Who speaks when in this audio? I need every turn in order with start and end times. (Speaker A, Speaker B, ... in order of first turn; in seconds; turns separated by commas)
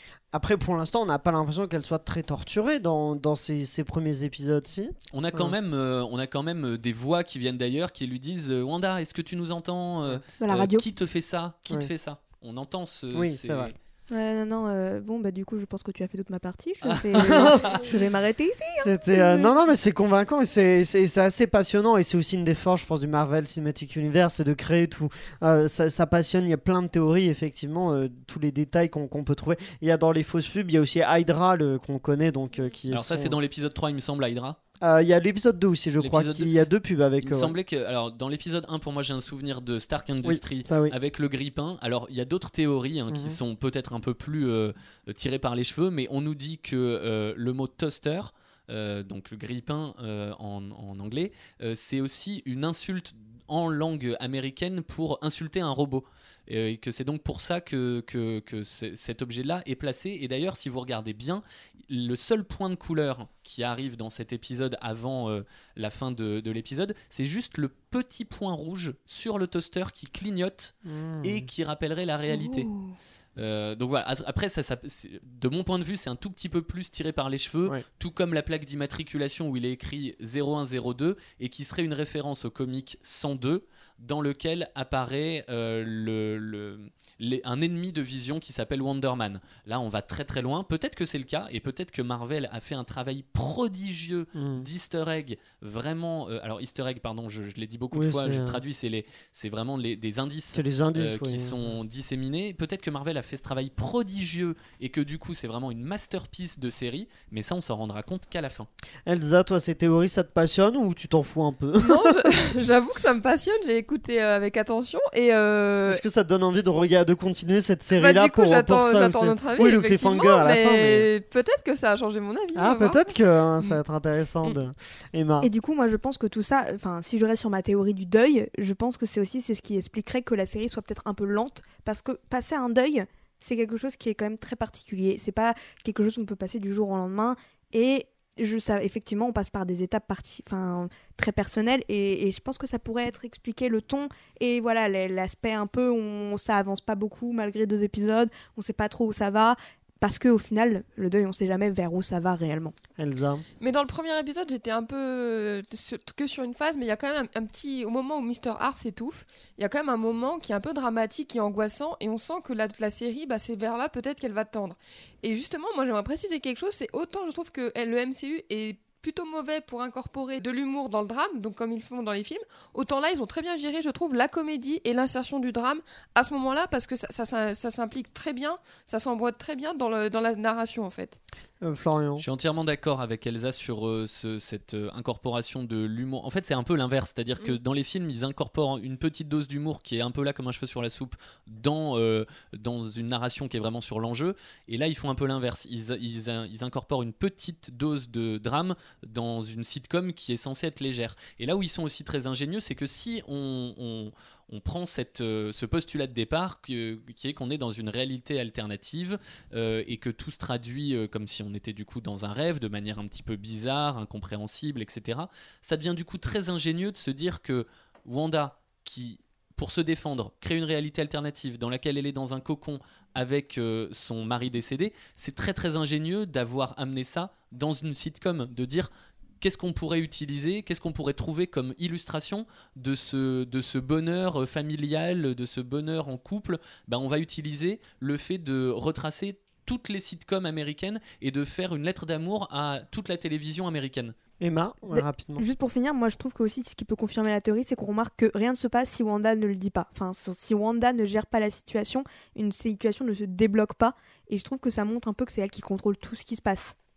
Speaker A: 0.3-5.5, Speaker B: 5.1-13.8, Speaker C: 10.4-10.8, Speaker A: 13.1-13.7, Speaker C: 14.1-19.5, Speaker B: 16.9-17.8, Speaker A: 17.1-17.7, Speaker A: 18.8-33.4, Speaker B: 32.9-34.6, Speaker A: 34.8-37.5, Speaker B: 36.0-36.5, Speaker B: 37.2-72.7, Speaker A: 40.2-41.0, Speaker A: 43.1-43.4, Speaker A: 70.9-71.5, Speaker C: 72.5-72.9, Speaker B: 73.4-108.7, Speaker A: 94.3-94.7, Speaker A: 97.9-98.6, Speaker A: 100.5-101.6, Speaker A: 109.1-112.4, Speaker D: 111.8-116.0, Speaker A: 115.9-121.1, Speaker D: 117.9-123.8, Speaker A: 122.5-125.5, Speaker C: 125.4-152.7, Speaker A: 153.0-153.4, Speaker D: 153.6-181.2, Speaker A: 181.6-182.2, Speaker B: 182.2-228.9, Speaker B: 229.4-244.1, Speaker A: 244.4-245.4, Speaker C: 244.9-256.8